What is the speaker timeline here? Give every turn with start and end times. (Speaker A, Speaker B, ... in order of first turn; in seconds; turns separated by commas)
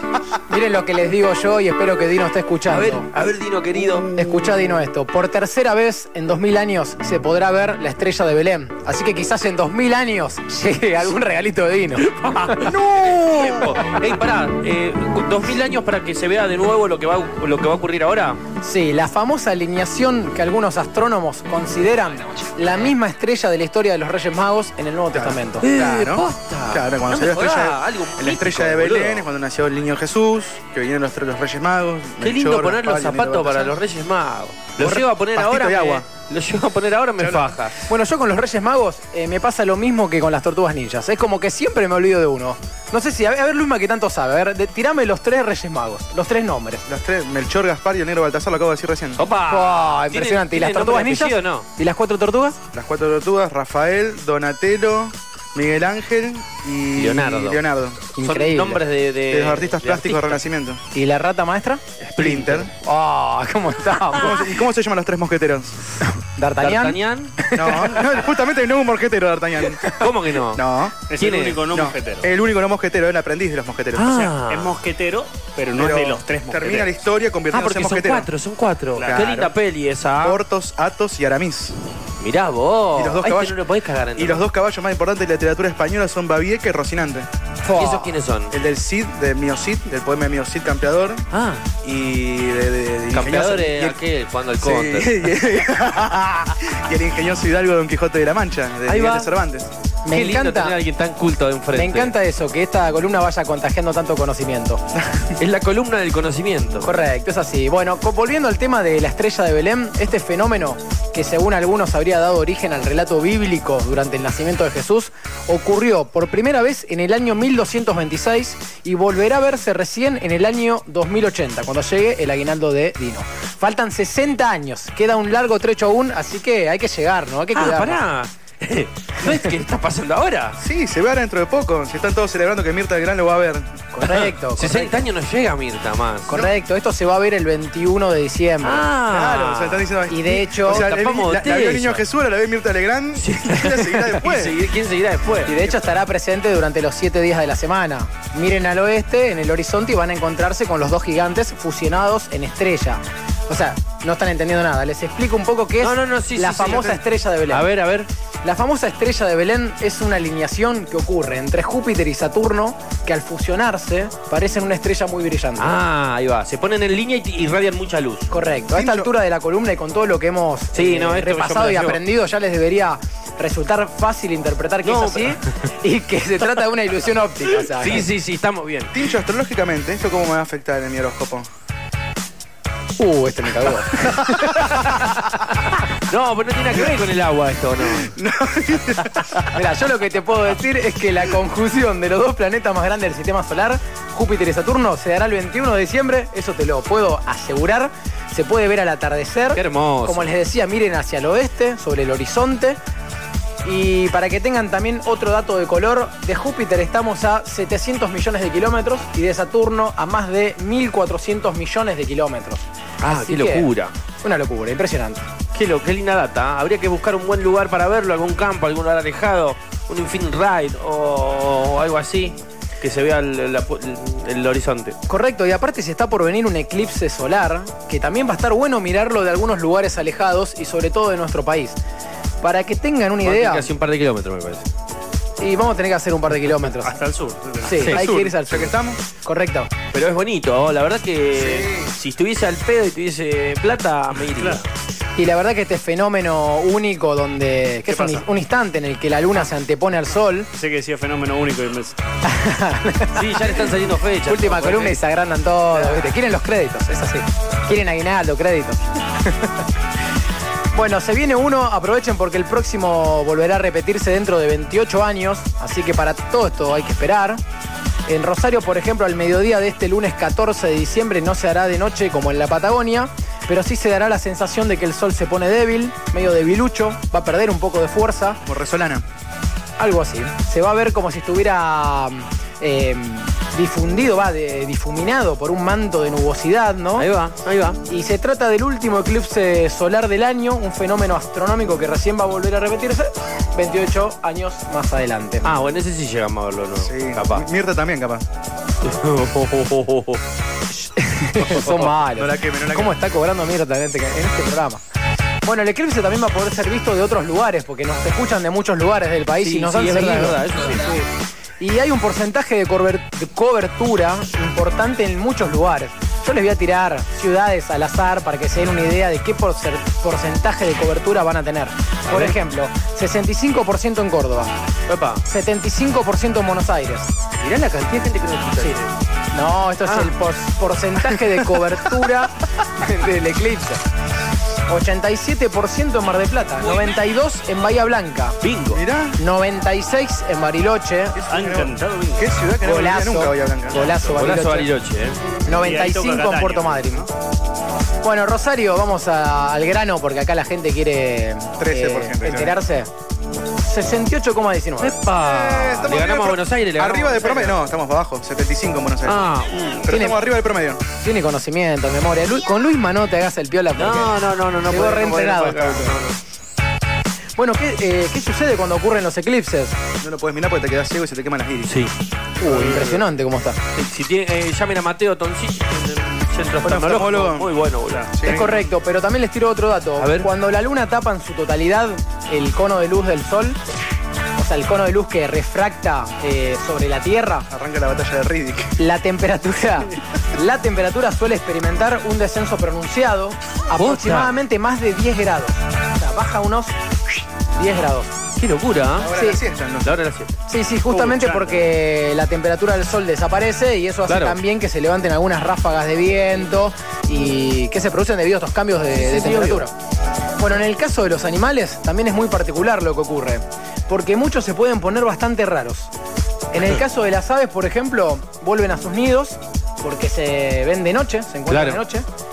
Speaker A: 0.5-3.1, Speaker B: 2.7-4.1, Speaker A: 4.1-12.7, Speaker B: 12.1-18.4, Speaker C: 12.7-13.6, Speaker A: 18.6-25.7, Speaker C: 25.1-33.8, Speaker B: 25.6-29.3, Speaker B: 32.2-37.8, Speaker C: 34.8-36.0, Speaker C: 37.2-37.7, Speaker A: 37.8-46.8, Speaker C: 46.9-49.3, Speaker B: 49.1-51.7, Speaker A: 49.4-52.6, Speaker C: 52.7-58.1, Speaker B: 57.0-57.6, Speaker A: 58.1-58.8, Speaker B: 58.2-60.4, Speaker C: 59.3-60.8, Speaker A: 60.9-61.8, Speaker B: 62.0-62.7, Speaker C: 62.2-62.7, Speaker A: 62.7-64.7, Speaker C: 64.2-65.9, Speaker A: 66.2-68.2, Speaker B: 66.6-67.4, Speaker C: 67.5-69.9, Speaker B: 69.8-71.6, Speaker C: 70.5-71.0, Speaker D: 71.1-72.3, Speaker C: 71.7-74.1, Speaker B: 73.9-74.7, Speaker D: 74.1-76.9, Speaker C: 75.7-78.3, Speaker B: 77.5-80.4, Speaker D: 78.9-79.2, Speaker C: 79.0-79.5, Speaker C: 80.2-81.8, Speaker B: 82.2-84.4, Speaker C: 82.9-83.6, Speaker C: 84.2-91.2, Speaker B: 87.7-88.5, Speaker B: 91.3-91.6, Speaker C: 91.8-94.0, Speaker B: 93.1-95.3, Speaker C: 94.6-99.7, Speaker B: 98.8-99.3, Speaker A: 100.0-100.8, Speaker B: 100.1-102.1, Speaker A: 101.7-104.8, Speaker B: 105.4-107.0, Speaker A: 106.8-128.0, Speaker B: 127.5-130.6, Speaker C: 130.6-133.9, Speaker A: 133.9-135.1, Speaker B: 134.2-136.5, Speaker A: 136.3-138.9, Speaker B: 138.6-139.9, Speaker C: 139.0-144.6, Speaker A: 140.1-140.9, Speaker B: 140.6-142.0, Speaker B: 143.2-145.6, Speaker A: 145.4-157.7, Speaker B: 155.8-158.1, Speaker A: 158.4-165.8, Speaker B: 165.6-168.3, Speaker A: 168.3-178.1, Speaker C: 168.7-169.1, Speaker B: 170.7-172.0, Speaker B: 174.8-175.4, Speaker B: 177.8-178.9, Speaker C: 178.9-181.5, Speaker A: 183.0-185.1, Speaker B: 184.6-188.1, Speaker C: 187.9-189.6, Speaker A: 189.5-202.8, Speaker B: 199.5-200.3, Speaker A: 203.6-213.7, Speaker B: 213.0-213.9, Speaker A: 214.2-215.2, Speaker B: 215.5-225.0, Speaker A: 225.1-231.8, Speaker A: 232.4-233.7, Speaker B: 233.2-234.7, Speaker A: 235.4-237.0, Speaker D: 236.7-237.9, Speaker A: 237.6-239.7, Speaker B: 237.8-238.1, Speaker C: 237.9-239.1, Speaker B: 239.9-244.7, Speaker C: 241.3-241.9, Speaker D: 244.3-244.6, Speaker A: 245.2-250.5, Speaker D: 247.9-248.2, Speaker D: 250.5-252.0, Speaker A: 252.2-253.6, Speaker B: 253.1-255.0, Speaker A: 254.2-259.6, Speaker A: 260.7-267.4, Speaker A: 268.1-278.4, Speaker C: 278.4-279.0, Speaker A: 279.8-287.1, Speaker B: 287.0-287.8, Speaker A: 287.9-295.6, Speaker B: 295.4-297.5, Speaker C: 296.8-298.2, Speaker B: 298.8-300.2, Speaker A: 300.8-304.8, Speaker B: 301.4-302.0, Speaker C: 302.1-303.0, Speaker A: 305.4-311.0, Speaker B: 309.4-311.0, Speaker A: 311.6-324.5, Speaker B: 322.1-322.4, Speaker B: 324.9-325.2, Speaker A: 325.2-327.1, Speaker B: 327.4-328.9, Speaker A: 329.3-333.8, Speaker B: 329.8-330.1, Speaker A: 334.7-338.4, Speaker B: 338.4-338.8, Speaker C: 338.7-339.2, Speaker A: 339.2-341.2, Speaker C: 341.1-343.9, Speaker D: 341.3-342.3, Speaker A: 342.6-344.7, Speaker B: 344.1-345.2, Speaker A: 345.4-347.1, Speaker D: 345.5-347.1, Speaker A: 348.0-352.9, Speaker C: 351.6-352.6, Speaker A: 353.6-355.0, Speaker B: 354.8-357.6, Speaker C: 355.1-359.3, Speaker B: 359.0-360.0, Speaker C: 359.8-360.9, Speaker A: 359.9-360.2, Speaker A: 360.9-366.0, Speaker B: 363.7-366.2, Speaker A: 367.4-369.8, Speaker C: 370.0-371.8, Speaker B: 371.6-371.9, Speaker A: 372.4-373.6, Speaker D: 372.4-372.9, Speaker B: 373.7-378.1, Speaker C: 376.6-377.5, Speaker D: 377.9-378.1, Speaker C: 378.1-378.5, Speaker A: 378.2-383.6, Speaker B: 380.0-380.3, Speaker A: 384.4-387.5, Speaker C: 387.5-388.8, Speaker A: 388.8-396.8, Speaker B: 393.8-394.3, Speaker A: 397.5-398.1, Speaker B: 398.4-399.1, Speaker C: 398.9-399.9, Speaker A: 399.1-399.4, Speaker B: 399.8-400.3, Speaker A: 400.5-409.7, Speaker D: 400.9-401.7, Speaker B: 404.1-404.4, Speaker B: 408.9-409.7, Speaker A: 410.4-415.9, Speaker A: 416.5-422.0, Speaker B: 421.5-421.8